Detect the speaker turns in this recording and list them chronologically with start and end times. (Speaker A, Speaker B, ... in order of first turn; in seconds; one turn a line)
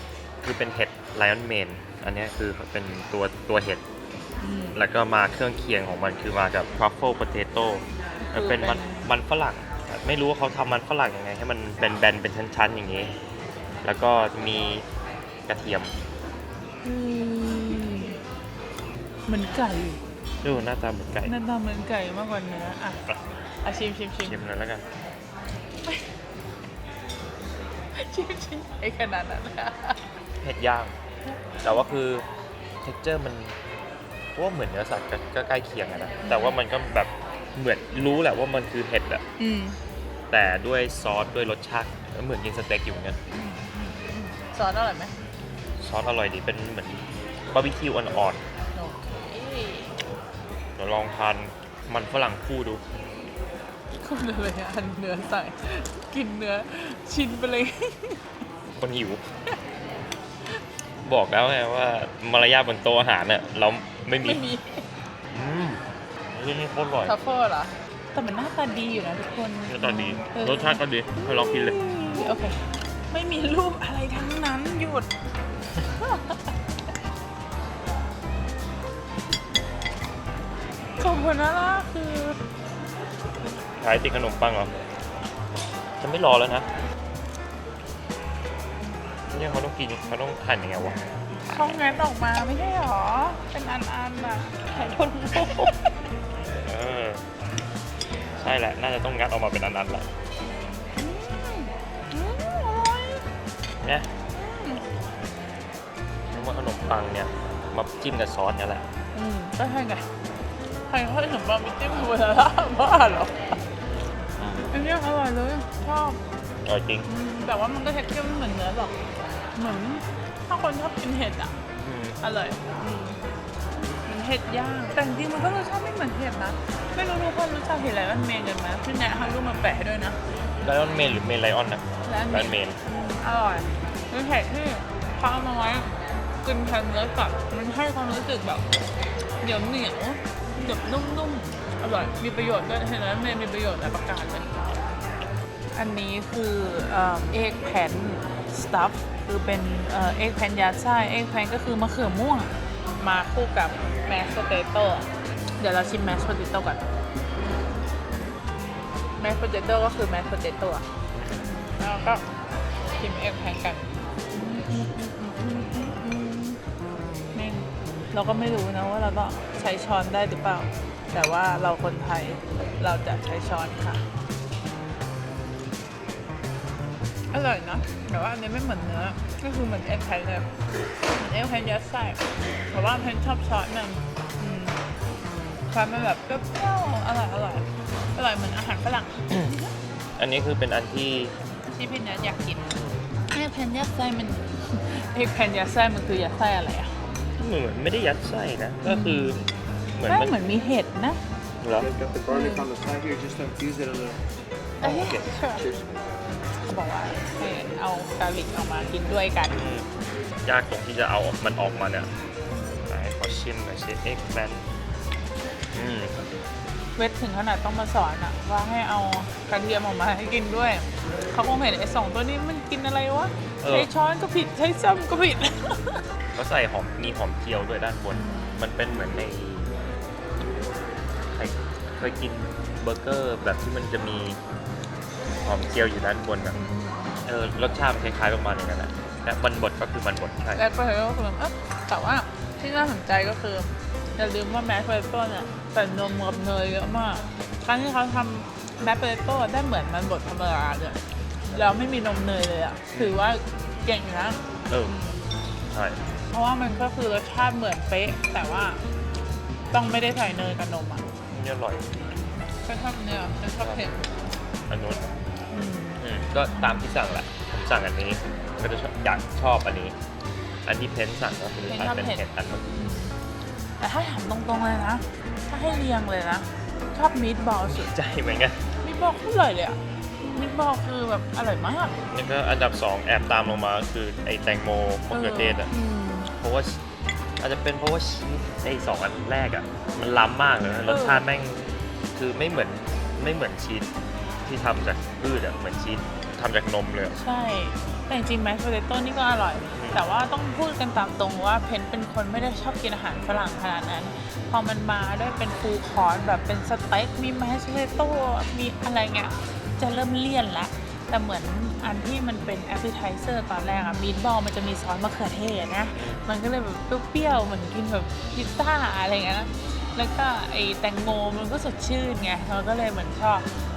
Speaker A: 0.4-3.8
Speaker B: 4.4-4.8
Speaker A: 4.8-13.1
Speaker B: 8.2-9.1
Speaker A: 13.8-14.9
Speaker A: 15.5-15.9
Speaker B: 16.8-18.2
Speaker B: 19.3-20.0
Speaker A: 20.4-21.3
Speaker B: 21.2-23.0
Speaker B: 23.6-24.4
Speaker A: 24.2-24.9
Speaker B: 27.9-30.1
Speaker A: 30.4-30.9
Speaker B: 31.2-31.8
Speaker A: 31.6-32.2
Speaker A: 32.8-33.6
Speaker A: 34.4-39.2
Speaker B: 36.2-36.6
Speaker B: 39.4-39.8
Speaker A: 40.3-43.2
Speaker B: 43.3-45.1
Speaker A: 45.8-48.4
Speaker B: 48.8-50.0
Speaker A: 50.8-52.8
Speaker B: 53.9-58.3
Speaker A: 58.8-59.2
Speaker A: 61.0-64.4
Speaker B: 64.2-64.9
Speaker A: 65.3-67.2
Speaker B: 67.0-75.1
Speaker A: 69.7-71.8
Speaker B: 76.0-76.5
Speaker B: 81.0-82.4
Speaker A: 83.8-84.7
Speaker A: 86.0-86.7
Speaker A: 89.3-91.9
Speaker B: 91.5-95.9
Speaker A: 96.7-97.2
Speaker A: 98.4-100.1
Speaker B: 101.0-103.2
Speaker A: 103.8-104.1
Speaker B: 104.3-104.8
Speaker A: 106.3-108.8
Speaker B: 109.1-110.0
Speaker B: 110.9-113.6
Speaker A: 114.4-114.7
Speaker B: 114.7-116.2
Speaker A: 116.6-117.1
Speaker B: 117.1-121.5
Speaker A: 121.8-122.2
Speaker B: 122.2-123.2
Speaker B: 124.1-130.2
Speaker A: 130.5-132.8
Speaker B: 132.1-138.7
Speaker B: 139.4-144.8
Speaker B: 145.8-155.1
Speaker B: 155.6-156.8
Speaker B: 159.2-160.8
Speaker B: 161.7-162.2
Speaker B: 163.0-166.6
Speaker B: 167.3-174.0
Speaker B: 177.3-180.5
Speaker B: 181.2-184.8
Speaker B: 185.7-189.7
Speaker A: 190.2-191.3
Speaker B: 191.7-192.7
Speaker B: 193.3-197.0
Speaker A: 197.4-200.3
Speaker B: 198.8-199.3
Speaker B: 200.1-201.2
Speaker A: 201.6-201.9
Speaker C: 201.8-204.3
Speaker B: 202.3-202.7
Speaker B: 204.8-205.7
Speaker A: 204.8-205.2
Speaker C: 204.9-206.0
Speaker B: 206.6-209.6
Speaker A: 209.5-209.9
Speaker A: 210.4-212.1
Speaker A: 212.9-214.7
Speaker A: 215.7-216.2
Speaker B: 217.0-226.0
Speaker A: 223.6-223.9
Speaker A: 226.3-229.7
Speaker B: 228.1-228.6
Speaker A: 231.3-234.4
Speaker A: 235.4-236.6
Speaker B: 236.5-237.2
Speaker A: 237.2-240.6
Speaker B: 240.6-255.2
Speaker A: 252.9-253.2
Speaker A: 255.7-256.0
Speaker B: 256.3-258.8
Speaker B: 259.7-261.1
Speaker A: 261.3-261.9
Speaker B: 262.6-264.1
Speaker A: 263.6-263.9
Speaker A: 264.7-265.1
Speaker B: 265.5-266.0
Speaker A: 266.0-270.0
Speaker A: 270.6-272.7
Speaker B: 271.6-273.1
Speaker B: 273.8-277.9
Speaker A: 277.7-278.6
Speaker B: 278.8-282.0
Speaker A: 282.1-285.7
Speaker B: 285.1-286.3
Speaker A: 286.3-286.8
Speaker A: 287.4-293.9
Speaker B: 290.9-291.2
Speaker A: 294.4-297.2
Speaker B: 297.1-323.5
Speaker A: 299.8-300.0
Speaker A: 315.9-316.2